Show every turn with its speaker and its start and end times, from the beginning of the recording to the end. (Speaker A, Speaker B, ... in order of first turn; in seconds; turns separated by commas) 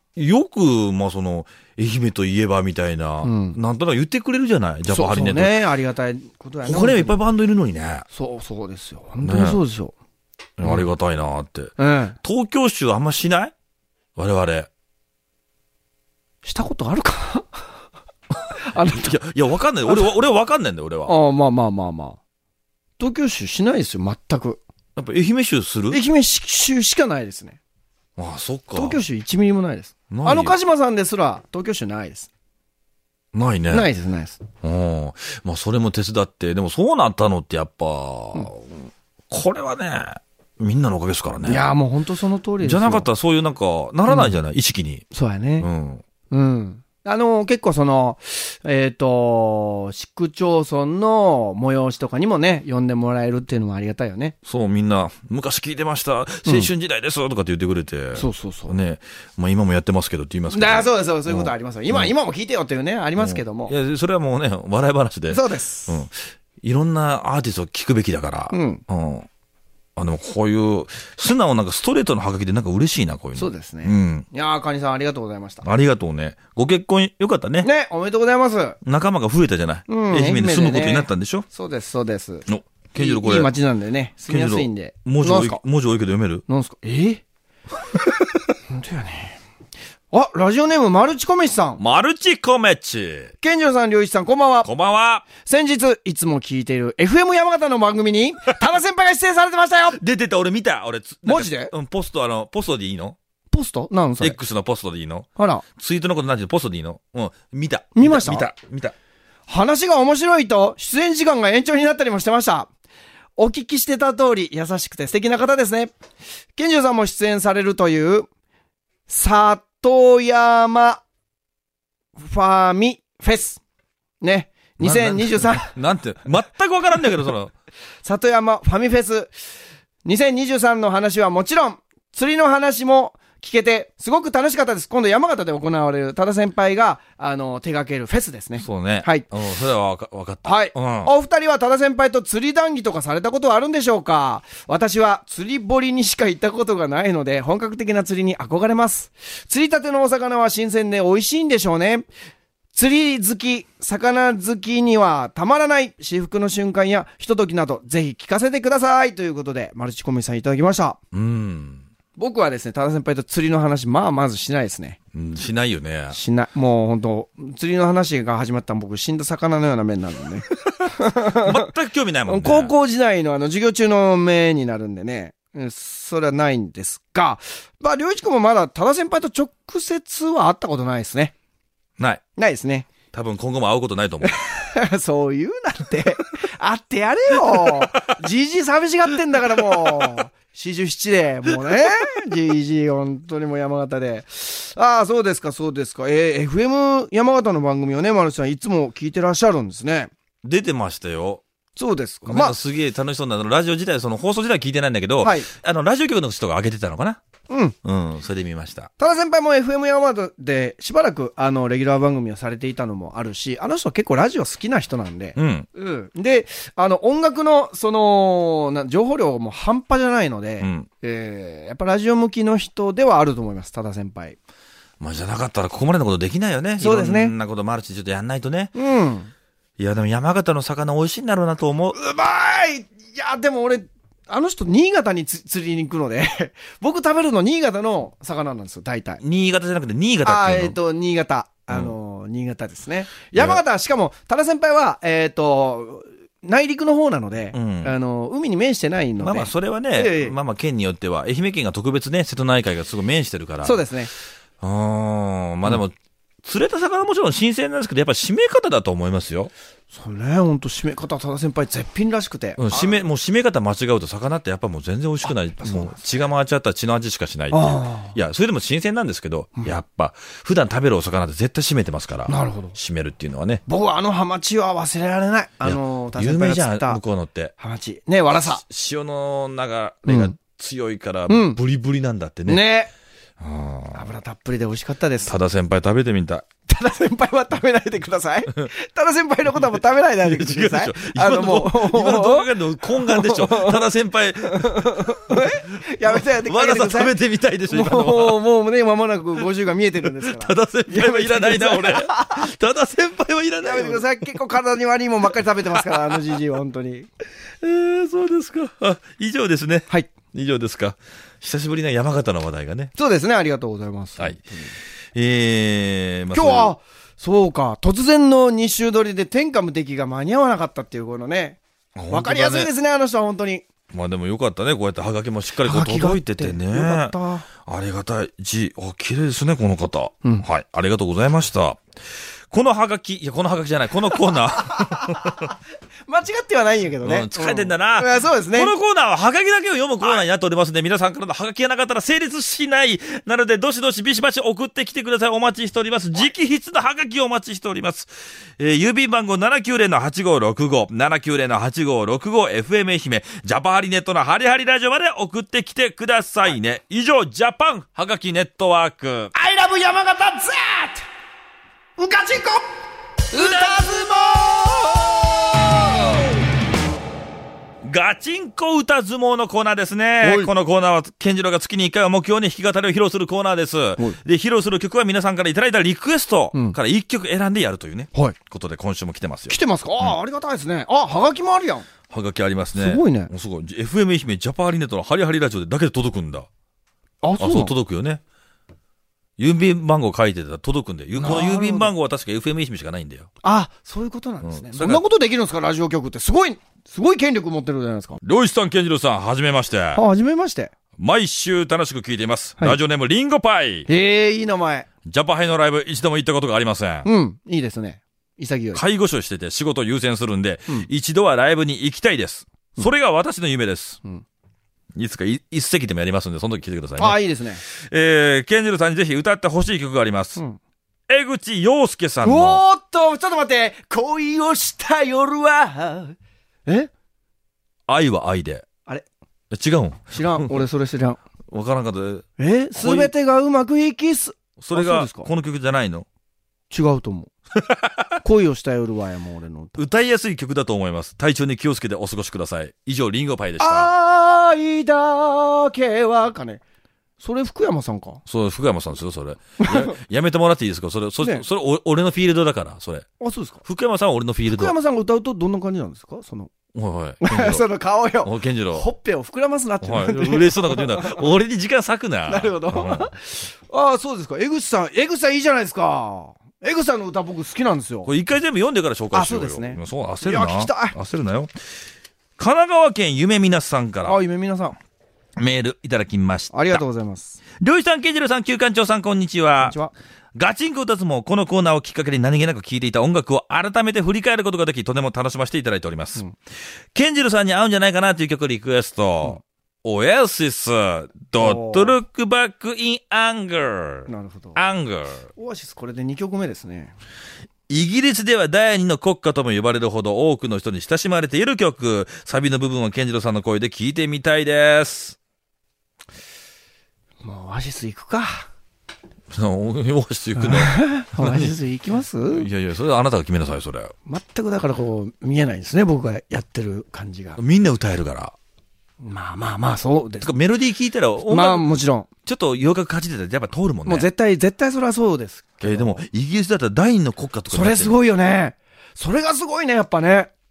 Speaker A: 0.1-5.6, Speaker B: 3.2-3.6, Speaker B: 4.9-7.2, Speaker A: 6.6-8.1, Speaker B: 8.1-9.9, Speaker A: 9.2-9.6, Speaker A: 10.6-13.5, Speaker B: 11.8-12.2, Speaker A: 14.2-14.7, Speaker B: 16.4-17.5, Speaker B: 18.6-19.2, Speaker A: 18.9-21.1, Speaker B: 21.1-22.2, Speaker B: 23.0-24.6, Speaker A: 24.9-26.0, Speaker B: 25.9-27.6, Speaker A: 28.2-29.0, Speaker B: 28.7-32.3, Speaker A: 30.1-30.5, Speaker A: 33.3-33.9, Speaker B: 33.7-34.4, Speaker A: 34.6-38.7, Speaker A: 39.3-41.6, Speaker B: 41.4-43.0, Speaker A: 42.6-45.0, Speaker B: 45.1-45.7, Speaker A: 45.6-46.0, Speaker B: 46.3-54.3, Speaker A: 54.5-62.1, Speaker B: 58.1-58.7, Speaker B: 60.5-63.7, Speaker A: 63.2-69.3, Speaker B: 65.3-66.0, Speaker B: 68.5-68.8, Speaker A: 70.0-74.2, Speaker B: 73.3-75.6, Speaker A: 75.6-77.7, Speaker B: 77.6-78.8, Speaker A: 78.8-81.5, Speaker B: 79.9-85.6, Speaker A: 82.5-83.5, Speaker A: 84.3-86.4, Speaker B: 86.5-87.2, Speaker B: 88.7-89.4, Speaker B: 90.1-91.8, Speaker A: 91.8-93.3, Speaker B: 93.4-94.7, Speaker A: 94.6-95.3, Speaker B: 95.3-100.0, Speaker A: 100.0-103.2, Speaker B: 101.2-101.7, Speaker B: 103.5-104.4, Speaker A: 104.2-108.9, Speaker B: 105.4-105.6, Speaker B: 107.9-108.5, Speaker B: 109.5-112.7, Speaker B: 113.3-115.9, Speaker B: 116.5-118.3, Speaker B: 119.1-121.0, Speaker B: 122.2-123.6, Speaker B: 124.2-125.7, Speaker A: 124.8-127.5, Speaker B: 128.0-129.3, Speaker B: 130.0-139.3, Speaker A: 138.6-141.1, Speaker B: 140.4-152.1, Speaker B: 152.7-161.0, Speaker A: 161.1-161.8, Speaker B: 162.2-165.0, Speaker A: 165.1-166.2, Speaker B: 166.1-171.7, Speaker A: 171.3-172.7, Speaker B: 172.3-181.3, Speaker B: 182.3-182.9, Speaker A: 183.1-184.4, Speaker B: 184.2-200.1, Speaker A: 187.4-187.8, Speaker A: 189.7-190.2, Speaker A: 200.4-201.4, Speaker B: 201.8-202.6, Speaker A: 202.2-207.2, Speaker B: 205.2-205.5, Speaker B: 207.5-207.7, Speaker A: 207.8-208.9, Speaker B: 209.0-224.4, Speaker A: 215.3-215.7, Speaker A: 220.6-220.9, Speaker A: 225.0-228.7, Speaker B: 226.8-227.3, Speaker B: 228.7-229.3, Speaker A: 229.8-231.9, Speaker B: 231.9-239.2, Speaker A: 239.2-240.8, Speaker B: 240.2-250.3, Speaker A: 241.7-241.9, Speaker A: 243.3-243.6, Speaker A: 247.5-247.9, Speaker A: 249.2-253.8, Speaker B: 253.6-254.1, Speaker A: 254.6-259.5, Speaker B: 259.9-262.9, Speaker A: 262.6-273.6, Speaker B: 265.6-265.9, Speaker B: 267.5-268.1, Speaker B: 272.3-272.7, Speaker B: 273.7-277.0, Speaker A: 275.6-277.5, Speaker B: 277.6-278.6, Speaker A: 278.3-282.6, Speaker B: 280.1-280.3, Speaker B: 281.3-281.6, Speaker B: 282.5-282.9, Speaker A: 283.4-284.1, Speaker B: 283.9-285.3, Speaker A: 285.2-286.4, Speaker B: 286.7-293.8, Speaker A: 289.5-295.4, Speaker B: 294.4-297.1, Speaker A: 296.0-298.4, Speaker B: 297.7-302.5, Speaker A: 300.1-304.4, Speaker B: 303.6-307.1, Speaker A: 305.8-306.4, Speaker A: 307.6-312.9, Speaker B: 312.9-314.8, Speaker A: 315.1-316.7, Speaker B: 316.3-323.6, Speaker A: 321.9-322.7, Speaker A: 323.9-331.8, Speaker B: 325.6-327.4, Speaker A: 332.5-335.5, Speaker B: 334.7-335.5, Speaker B: 336.1-338.7, Speaker A: 337.0-359.3, Speaker B: 359.3-361.0, Speaker B: 362.0-362.6, Speaker B: 363.3-365.9, Speaker A: 363.3-363.9, Speaker A: 367.8-380.1, Speaker B: 370.2-370.5, Speaker B: 379.5-381.9, Speaker A: 382.1-386.5, Speaker B: 382.7-383.3, Speaker B: 387.2-387.7, Speaker A: 387.4-388.2, Speaker A: 389.4-393.3, Speaker B: 391.1-391.9, Speaker B: 393.4-398.2, Speaker A: 394.4-395.0, Speaker A: 398.2-400.0, Speaker B: 399.9-400.7, Speaker A: 401.0-403.9, Speaker B: 403.9-404.9, Speaker A: 405.0-407.1, Speaker B: 407.0-408.8, Speaker A: 408.7-414.0, Speaker A: 414.9-420.4, Speaker B: 417.0-417.6, Speaker A: 421.1-422.6, Speaker B: 422.2-426.9, Speaker A: 427.9-428.6, Speaker A: 429.5-430.6, Speaker B: 430.1-431.2, Speaker A: 431.5-432.2, Speaker B: 432.4-435.3, Speaker A: 432.8-433.1, Speaker A: 434.6-436.1, Speaker B: 436.7-437.3, Speaker A: 437.6-438.1, Speaker B: 438.2-439.8, Speaker A: 439.8-443.9, Speaker B: 443.6-446.6, Speaker B: 447.2-448.2, Speaker A: 448.2-453.1, Speaker B: 449.6-449.9, Speaker B: 453.2-453.6, Speaker A: 453.6-454.7, Speaker B: 454.5-456.5, Speaker A: 456.7-457.6, Speaker B: 457.2-461.2, Speaker A: 458.2-458.9, Speaker A: 459.8-463.1, Speaker B: 462.3-468.1, Speaker A: 468.1-471.5, Speaker B: 469.1-470.9, Speaker A: 472.4-474.2, Speaker B: 474.0-474.8, Speaker A: 475.4-476.8, Speaker B: 476.5-477.4, Speaker A: 477.6-479.7, Speaker B: 479.6-479.9, Speaker A: 480.3-486.2, Speaker A: 486.9-495.3, Speaker B: 491.4-492.0, Speaker B: 494.1-494.6, Speaker B: 495.3-496.9, Speaker A: 497.7-505.2, Speaker B: 507.2-508.4, Speaker A: 509.3-511.6, Speaker B: 510.4-512.5, Speaker A: 512.3-513.9, Speaker B: 514.0-517.4, Speaker A: 517.4-518.3, Speaker B: 519.0-520.3, Speaker A: 520.2-521.7, Speaker B: 521.3-522.1, Speaker A: 522.2-524.1, Speaker B: 523.9-526.0, Speaker A: 525.6-527.9, Speaker B: 527.5-530.3